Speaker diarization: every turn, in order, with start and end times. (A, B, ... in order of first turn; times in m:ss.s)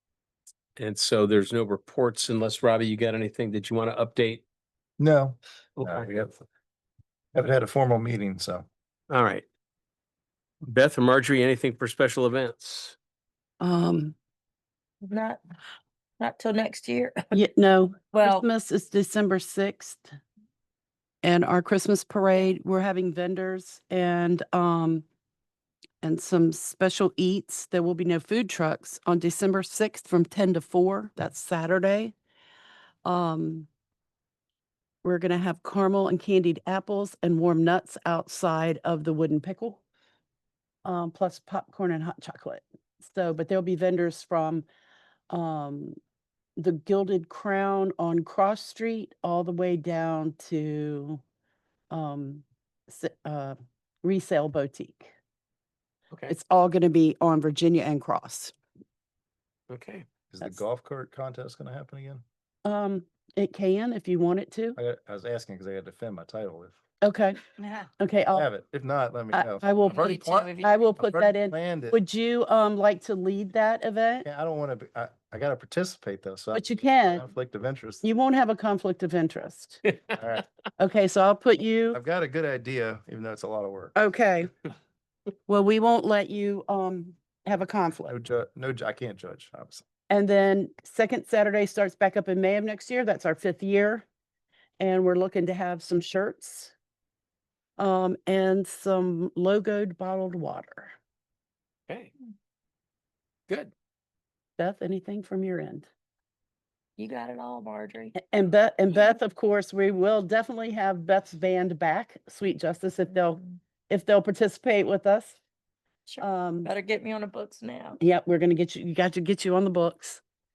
0:00.8-0:04.4 A
0:05.0-0:06.4 B
0:05.8-0:06.1 A
0:07.3-0:08.6 B
0:09.1-0:09.4 A
0:10.6-0:13.0 A
0:13.6-0:14.1 C
0:15.0-0:15.4 D
0:16.2-0:17.4 D
0:17.3-0:20.2 C
0:18.1-0:18.4 D
0:21.2-0:25.0 C
0:26.0-0:32.1 C
0:33.0-0:33.7 C
0:35.0-0:39.8 C
0:40.8-0:44.6 C
0:45.3-0:46.0 C
0:46.6-0:51.2 C
0:51.9-0:55.1 C
0:56.3-0:58.5 C
0:59.7-1:00.0 A
1:00.3-1:02.2 B
1:02.6-1:04.8 C
1:04.8-1:06.8 B
1:07.0-1:07.4 C
1:08.0-1:08.5 C
1:08.3-1:12.0 B
1:09.3-1:14.2 C
1:09.9-1:10.9 D
1:14.2-1:18.0 B
1:16.5-1:17.2 C
1:18.0-1:19.8 C
1:20.2-1:20.4 B
1:20.8-1:22.0 C
1:21.9-1:23.9 B
1:23.9-1:24.5 C
1:25.5-1:28.1 C
1:28.0-1:29.8 B
1:30.1-1:34.0 C
1:34.8-1:36.7 C
1:37.8-1:40.9 C
1:44.6-1:45.9 C
1:47.0-1:48.1 D
1:48.2-1:55.4 C
1:53.2-1:53.6 D
1:56.1-1:58.0 D
1:56.2-1:56.7 C
1:58.0-2:00.2 C